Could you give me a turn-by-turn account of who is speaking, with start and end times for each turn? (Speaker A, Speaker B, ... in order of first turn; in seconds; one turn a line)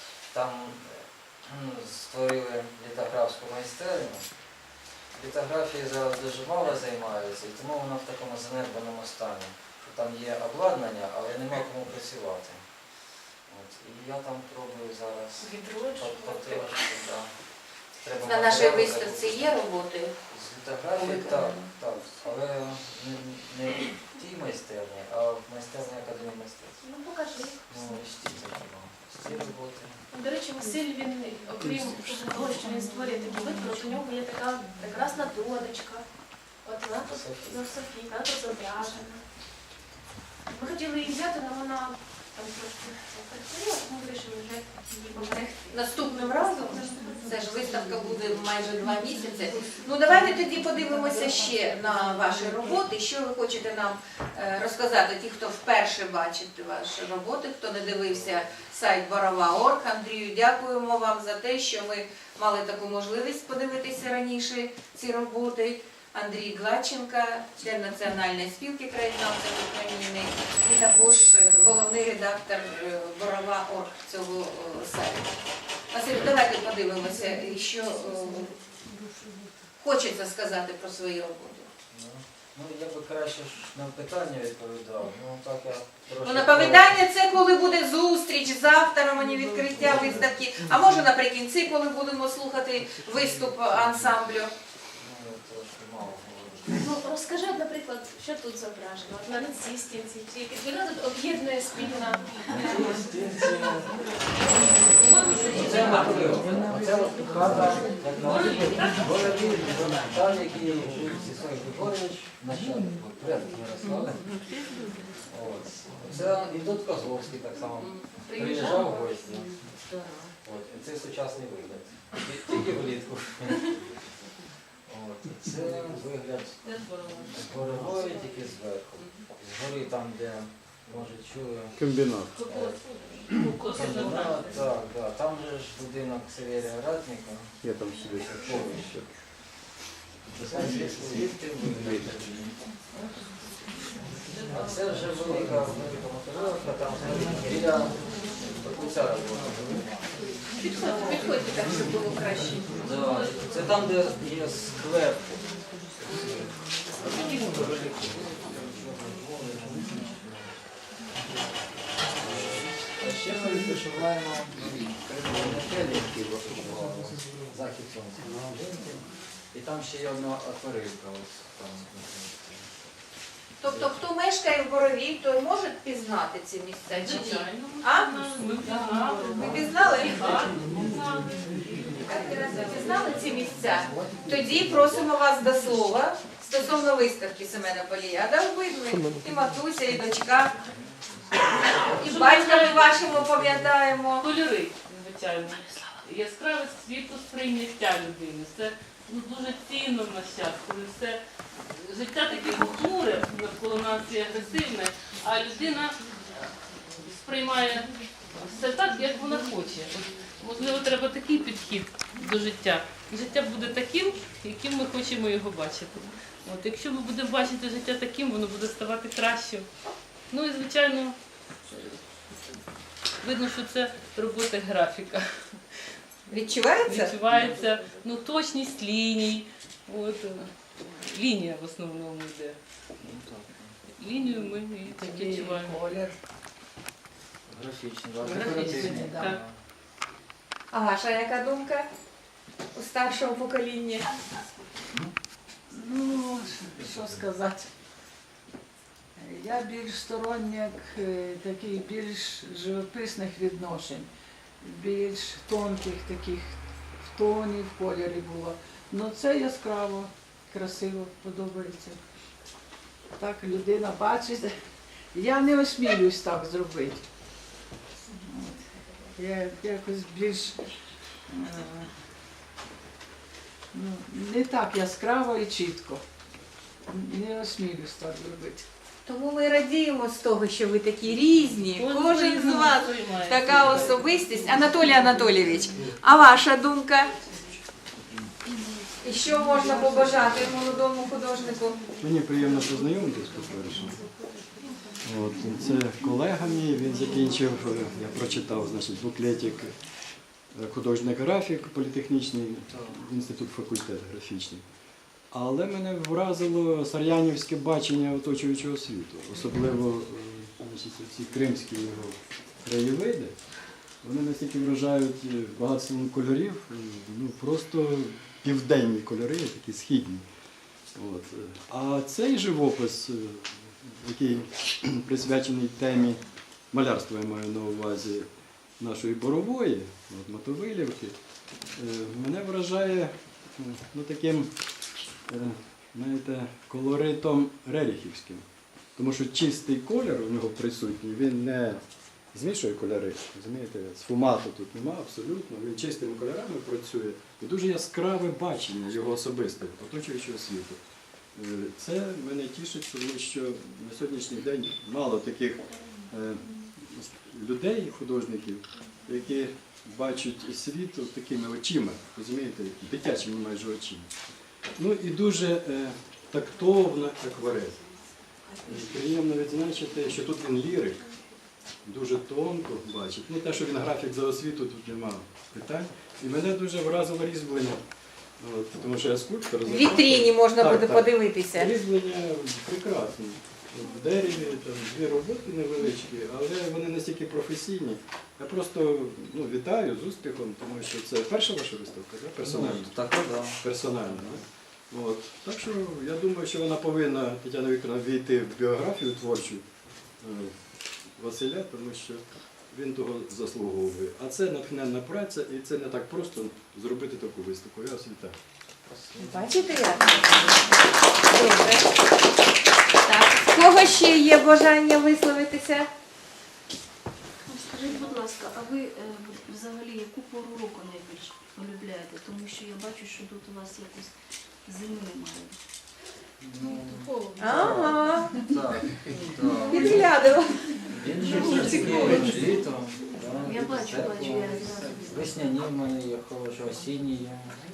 Speaker A: 0.3-4.3
Speaker A: 5.2-12.6
Speaker A: 13.5-17.3
Speaker B: 15.4-16.8
Speaker A: 18.0-19.6
Speaker C: 18.2-20.1
Speaker A: 20.3-26.8
Speaker C: 21.0-21.6
Speaker B: 26.8-27.6
Speaker A: 27.7-30.0
Speaker B: 30.1-36.1
Speaker B: 36.6-39.2
Speaker A: 37.0-37.7
Speaker B: 40.5-45.8
Speaker C: 45.7-75.3
Speaker A: 58.1-58.4
Speaker C: 75.9-78.5
Speaker C: 79.8-81.7
Speaker A: 81.9-87.0
Speaker C: 86.2-94.5
Speaker A: 89.8-90.3
Speaker A: 95.0-97.0
Speaker B: 96.7-102.8
Speaker A: 102.5-104.0
Speaker B: 105.0-106.4
Speaker A: 105.5-114.2
Speaker D: 108.2-109.4
Speaker A: 115.3-119.6
Speaker B: 118.3-118.9
Speaker A: 120.4-123.7
Speaker A: 124.9-131.8
Speaker D: 126.6-127.5
Speaker E: 131.8-132.4
Speaker D: 132.3-134.6
Speaker A: 132.4-132.8
Speaker A: 133.6-139.0
Speaker E: 137.6-139.0
Speaker A: 140.3-142.5
Speaker E: 141.7-142.1
Speaker D: 144.3-144.9
Speaker A: 144.5-148.0
Speaker A: 148.6-150.0
Speaker C: 150.6-152.7
Speaker A: 152.8-155.4
Speaker A: 156.0-160.5
Speaker A: 162.1-172.7
Speaker C: 173.6-178.2
Speaker A: 173.6-174.0
Speaker D: 176.9-181.8
Speaker C: 179.3-180.5
Speaker C: 182.0-190.6
Speaker C: 191.7-194.3
Speaker D: 191.9-192.9
Speaker D: 194.2-201.2
Speaker D: 201.8-206.5
Speaker D: 207.0-219.7
Speaker D: 220.3-221.2
Speaker D: 221.7-222.0
Speaker D: 223.2-225.3
Speaker C: 226.3-227.2
Speaker D: 226.8-232.6
Speaker A: 233.0-233.8
Speaker D: 234.0-235.8
Speaker F: 234.9-236.2
Speaker A: 237.5-239.6
Speaker F: 238.2-239.3
Speaker D: 238.3-239.4
Speaker C: 240.7-241.9
Speaker C: 242.7-244.1
Speaker F: 245.7-247.7
Speaker A: 246.8-247.2
Speaker F: 249.2-254.1
Speaker F: 254.6-262.0
Speaker F: 263.2-264.5
Speaker F: 265.1-267.0
Speaker F: 268.1-268.6
Speaker F: 269.2-270.6
Speaker F: 271.3-271.9
Speaker F: 273.7-276.0
Speaker F: 276.9-278.7
Speaker C: 279.1-287.1
Speaker D: 281.8-284.0
Speaker C: 289.0-291.8
Speaker E: 292.0-294.0
Speaker E: 295.0-299.8
Speaker E: 300.5-304.6
Speaker A: 302.7-303.0
Speaker E: 305.3-313.4
Speaker E: 314.0-320.2
Speaker E: 320.9-328.3
Speaker E: 328.8-331.2
Speaker E: 331.8-334.5
Speaker E: 335.3-338.4
Speaker E: 339.0-350.8
Speaker E: 351.4-364.1
Speaker E: 364.8-367.8
Speaker E: 368.6-371.1
Speaker E: 371.8-377.8
Speaker E: 378.4-399.6
Speaker C: 379.6-381.8
Speaker A: 392.4-394.4
Speaker E: 400.2-400.6
Speaker E: 401.2-408.4
Speaker A: 408.9-410.4
Speaker C: 409.2-410.5
Speaker C: 411.2-411.9
Speaker C: 413.1-415.9
Speaker G: 417.5-424.1
Speaker G: 424.7-425.6
Speaker A: 426.4-430.2
Speaker C: 427.4-428.4
Speaker C: 429.7-430.6
Speaker A: 430.9-437.6
Speaker C: 431.5-432.4
Speaker G: 431.6-432.2
Speaker G: 433.6-435.0